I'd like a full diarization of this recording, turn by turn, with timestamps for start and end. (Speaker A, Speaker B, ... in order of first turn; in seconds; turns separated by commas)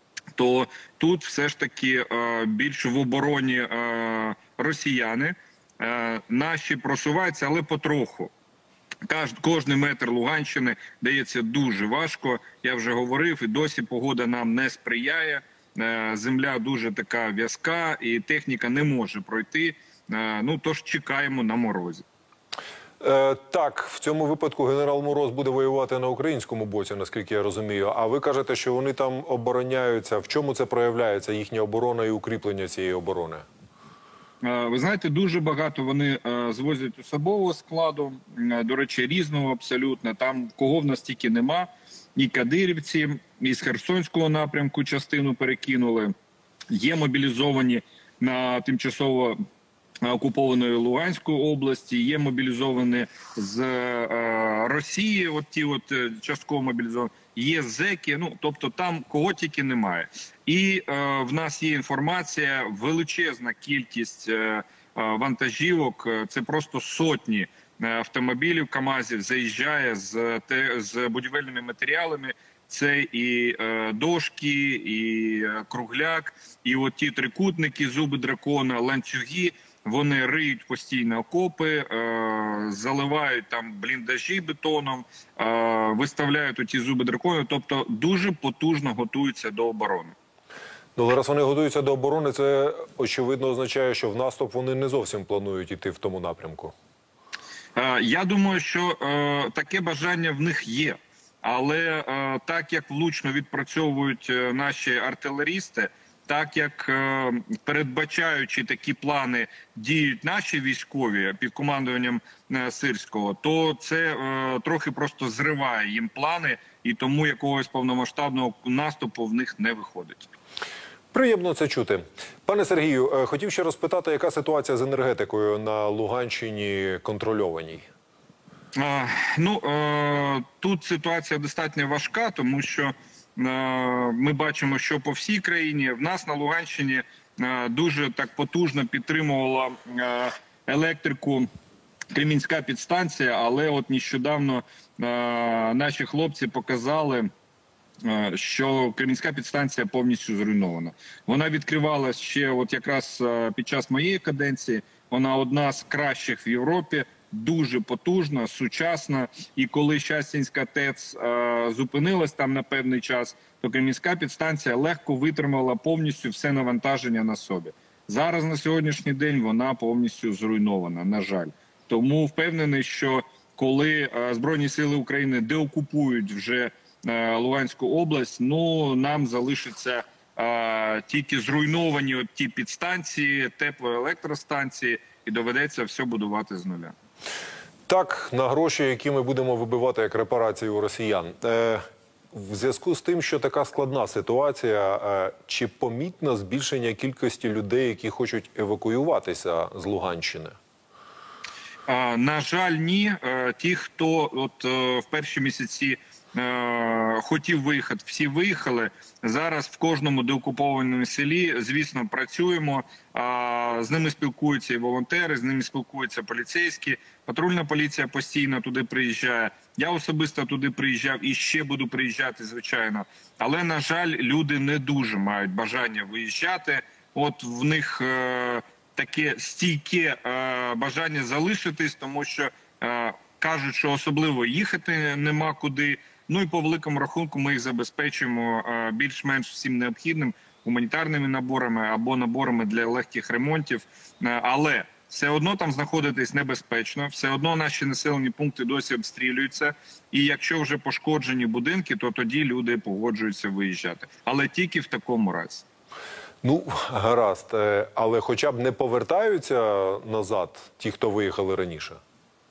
Speaker A: 0.3-8.3, Speaker A: 9.1-22.0, Speaker B: 23.0-33.4, Speaker A: 34.4-46.1, Speaker A: 46.7-49.4, Speaker A: 50.0-90.1, Speaker B: 91.0-96.7, Speaker A: 97.8-120.3, Speaker B: 121.1-127.8, Speaker A: 128.7-141.5, Speaker A: 142.1-147.3, Speaker A: 148.0-186.9, Speaker B: 187.9-200.5, Speaker A: 201.9-255.6, Speaker B: 256.4-262.0